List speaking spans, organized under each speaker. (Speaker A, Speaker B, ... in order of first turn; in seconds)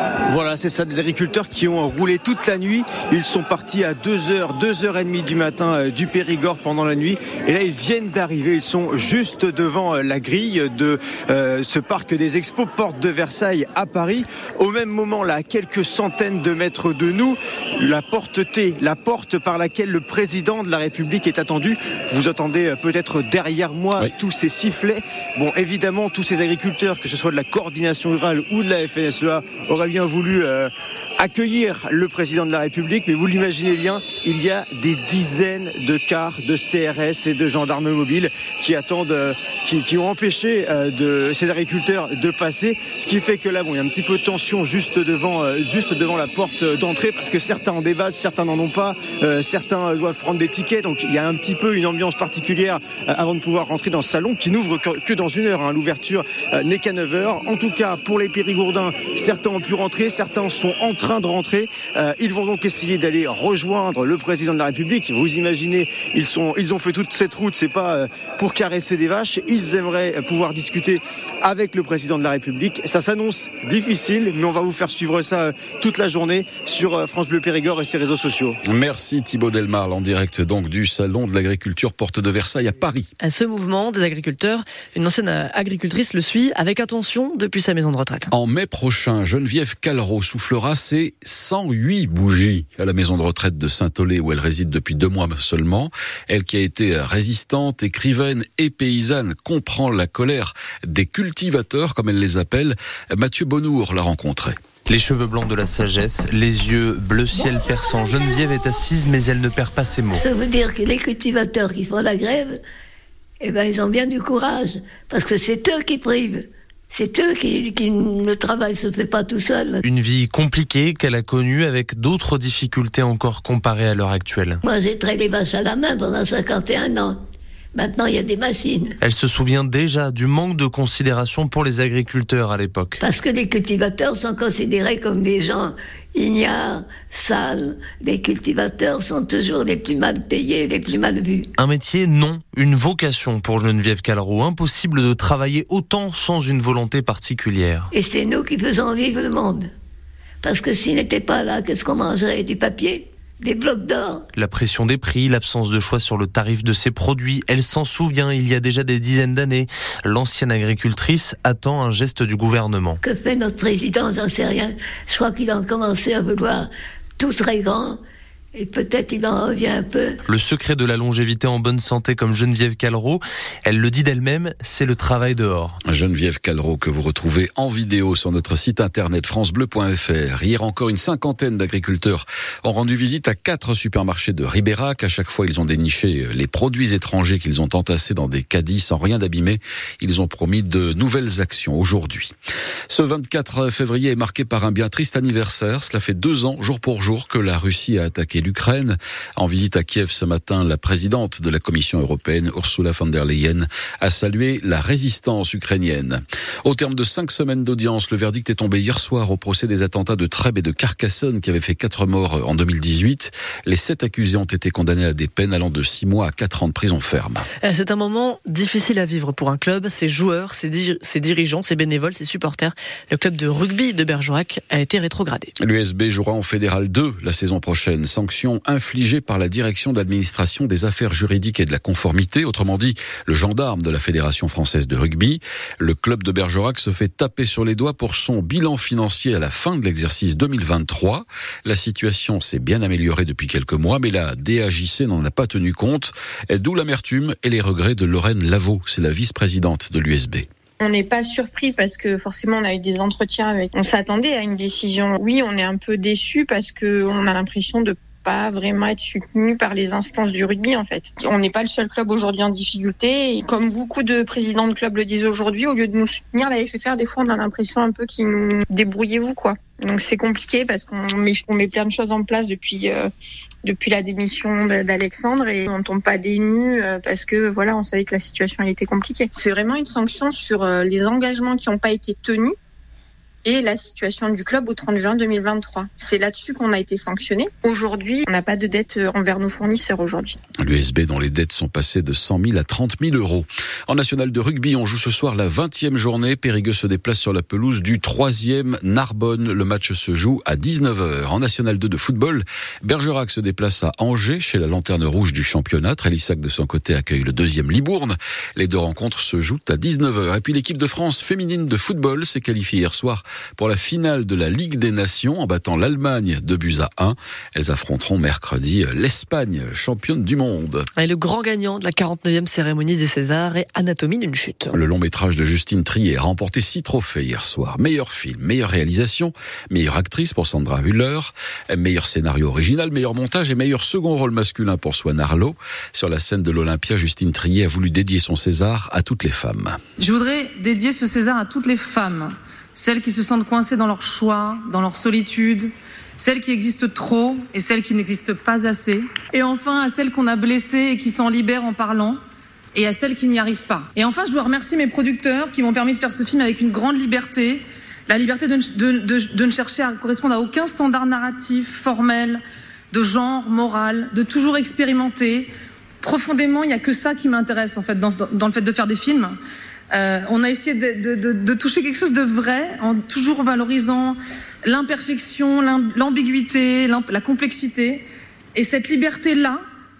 Speaker A: 0.3-78.6
Speaker B: 78.7-83.1, 88.3-104.5, 175.8-192.3, 192.9-217.4, 225.6-250.5, 290.6-320.9, 324.7-339.8
Speaker C: 83.2-88.3, 217.6-225.5, 321.0-324.8
Speaker D: 104.9-110.2, 119.8-124.6, 129.0-133.0, 141.6-147.9, 154.3-163.0, 170.2-175.8
Speaker E: 110.2-112.6, 113.4-119.8, 124.6-127.2, 127.7-129.0, 133.0-141.5, 147.9-149.7, 150.4-154.2, 163.0-166.7, 167.2-168.0, 168.5-170.2
Speaker F: 250.8-273.1, 273.6-282.5, 283.4-290.4
Speaker G: 340.0-352.2, 352.7-365.5, 366.0-369.4, 369.9-378.0, 378.5-379.6